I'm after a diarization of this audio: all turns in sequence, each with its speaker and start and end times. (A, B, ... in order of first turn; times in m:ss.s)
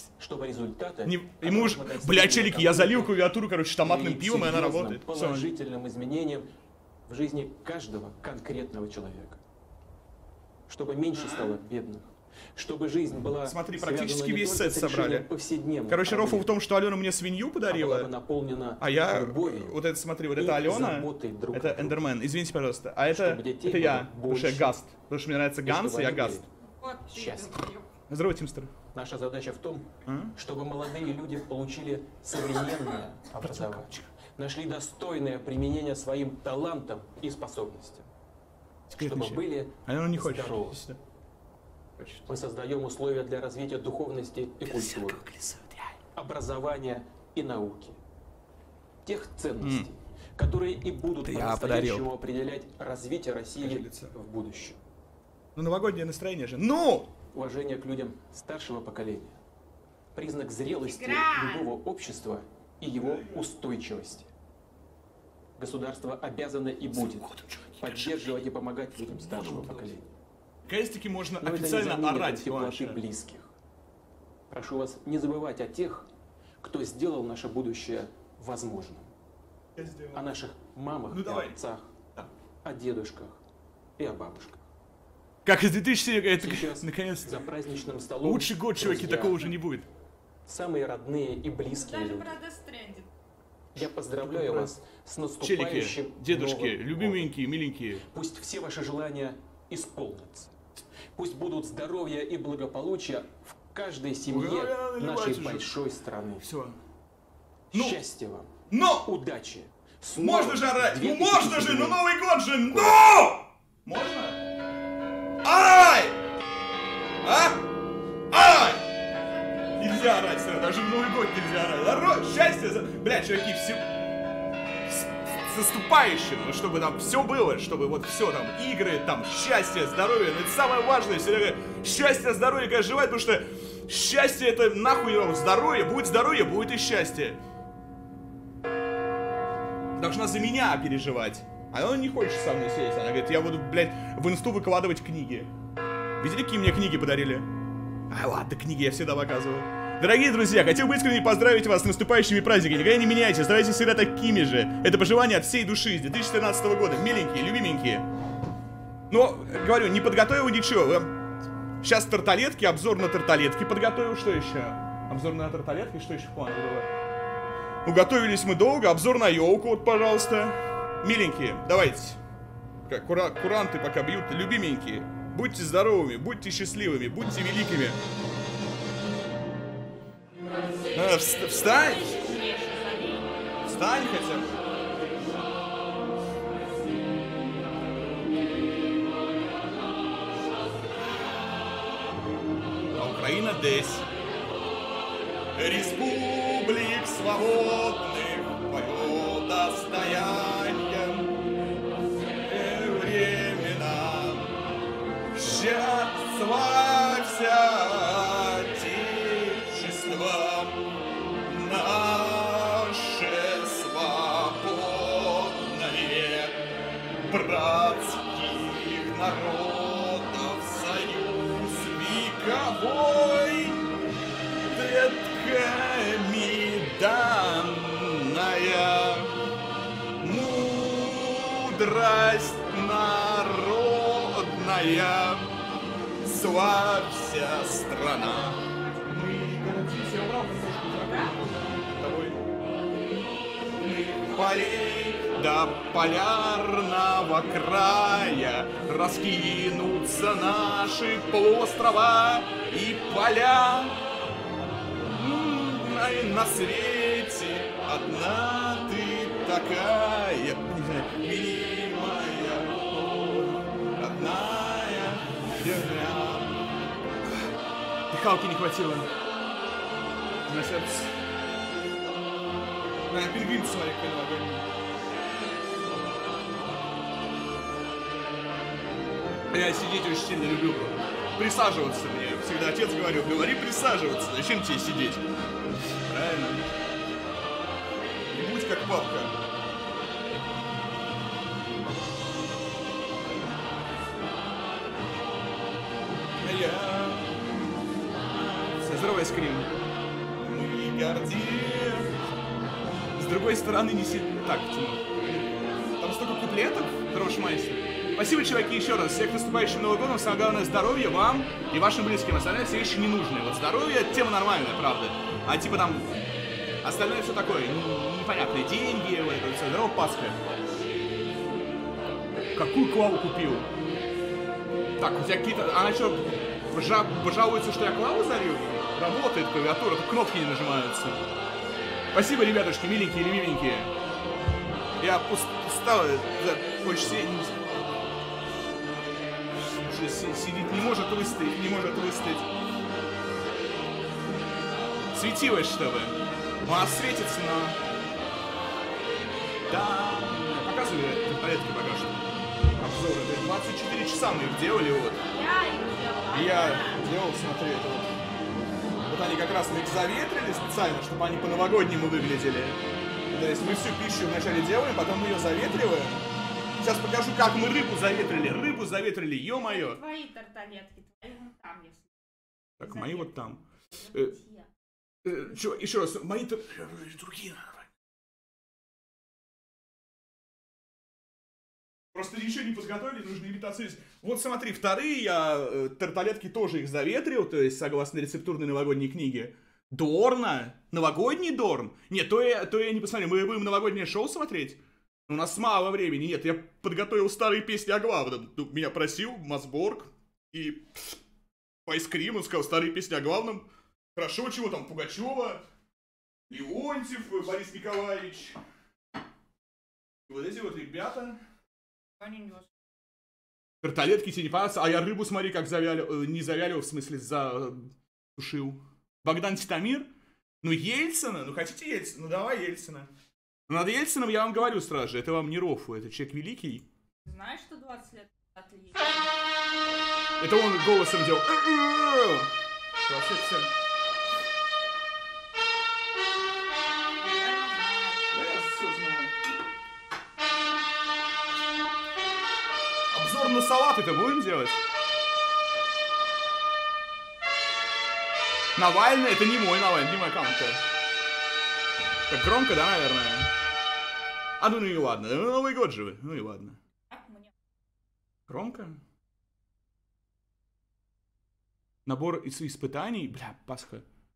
0:00.2-0:03.2 A
0:01.1-0:05.5 B
0:03.8-0:06.5 A
0:07.1-0:09.4 A
0:10.7-0:16.5 A
0:11.1-0:11.6 B
0:13.4-0:15.3 B
0:15.9-0:18.1 B
0:17.7-0:19.8 A
0:18.8-0:26.4 B
0:20.4-0:22.0 A
0:23.1-0:24.8 A
0:25.6-0:26.5 A
0:26.8-0:27.9 C
0:27.1-0:27.7 A
0:28.1-0:28.7 B
0:29.0-0:38.1 A
0:30.0-0:30.3 B
0:33.4-0:34.1 B
0:38.9-0:41.0 B
0:39.0-0:40.8 A
0:42.0-0:42.2 B
0:42.3-0:45.2 A
0:44.7-0:46.0 B
0:46.2-0:48.0 A
0:49.0-0:54.8 A
0:49.6-0:49.9 B
0:51.2-0:52.0 B
0:53.6-0:54.1 B
0:55.6-0:57.1 B
0:57.3-0:59.4 A
1:00.1-1:04.3 A
1:00.8-1:01.7 C
1:03.0-1:03.4 B
1:05.6-1:07.2 A
1:06.9-1:08.4 B
1:07.8-1:10.1 A
1:09.0-1:09.9 B
1:10.6-1:13.0 B
1:11.4-1:13.5 A
1:14.5-1:16.1 A
1:16.6-1:19.1 A
1:19.8-1:20.2 B
1:20.1-1:21.9 A
1:21.1-1:21.6 B
1:22.6-1:23.4 A
1:24.0-1:24.7 A
1:25.4-1:27.5 B
1:26.4-1:29.5 A
1:28.2-1:29.9 B
1:30.5-1:32.4 A
1:31.7-1:33.1 C
1:33.8-1:37.3 A
1:34.2-1:34.7 B
1:35.4-1:38.0 B
1:38.1-1:40.5 A
1:41.2-1:46.5 A
1:44.3-1:45.8 B
1:46.4-1:46.8 B
1:47.7-1:52.0 A
1:47.7-1:48.0 B
1:48.7-1:49.1 B
1:50.2-1:54.4 B
1:52.7-1:53.0 A
1:55.4-1:56.2 B
1:57.2-1:57.6 B
1:58.3-1:58.8 B
1:59.1-2:00.4 C
1:59.8-2:03.8 B
2:04.9-2:17.4 B
2:20.0-2:25.5 B
2:26.2-2:27.5 B
2:28.1-2:38.1 B
2:39.1-2:41.1 B
2:41.8-2:46.9 B
2:47.8-2:52.2 B
2:52.9-2:58.0 B
3:00.9-3:02.1 B
3:01.0-3:03.2 C
3:03.6-3:04.6 B
3:13.0-3:14.1 B
3:15.6-3:21.3 B
3:22.5-3:24.5 B
3:25.4-3:30.8 B
3:31.4-3:36.6 B
3:37.3-3:43.8 B
3:44.7-3:49.3 B
3:50.2-3:55.5 B
3:56.2-4:02.4 B
3:57.8-3:59.5 C
4:00.9-4:01.3 C
4:04.2-4:14.0 B
4:15.1-4:26.6 B
4:28.1-4:29.1 B
4:30.5-4:31.1 B
4:33.1-4:34.7 B
4:39.5-4:45.2 B
4:46.0-4:46.6 B
4:48.3-4:49.3 B
4:56.4-4:57.4 B
4:58.3-4:59.7 B
5:00.4-5:02.1 B
5:03.2-5:16.1 B
5:16.8-5:20.4 B
5:22.5-5:23.7 B
5:25.0-5:31.2 B
5:32.1-5:33.9 B
5:35.0-5:37.6 B
5:39.6-5:42.5 B
5:45.1-5:47.8 B
5:49.7-5:52.2 B
5:52.8-5:55.2 B
5:55.3-5:57.0 C
5:56.3-5:58.2 B
5:59.1-6:02.8 B
6:03.3-6:06.2 B
6:06.8-6:10.0 B
6:09.6-6:12.1 C
6:12.8-6:14.3 B
6:12.8-6:13.4 C
6:13.9-6:14.7 C
6:15.2-6:17.9 B
6:22.1-6:41.2 B
6:41.9-6:45.6 B
6:46.5-6:48.6 B
6:50.3-6:51.4 B
6:52.2-6:52.7 C
6:53.8-7:00.1 B
7:00.6-7:03.1 B
7:03.7-7:06.9 B
7:07.2-7:09.3 C
7:10.4-7:13.7 B
7:17.2-7:18.3 C
7:18.3-7:19.3 B
7:23.1-7:24.8 B
7:28.8-7:30.8 B
7:32.3-7:33.5 B
7:34.6-7:36.8 B
7:37.1-7:37.5 C
7:38.5-7:39.0 B
7:42.1-7:44.0 B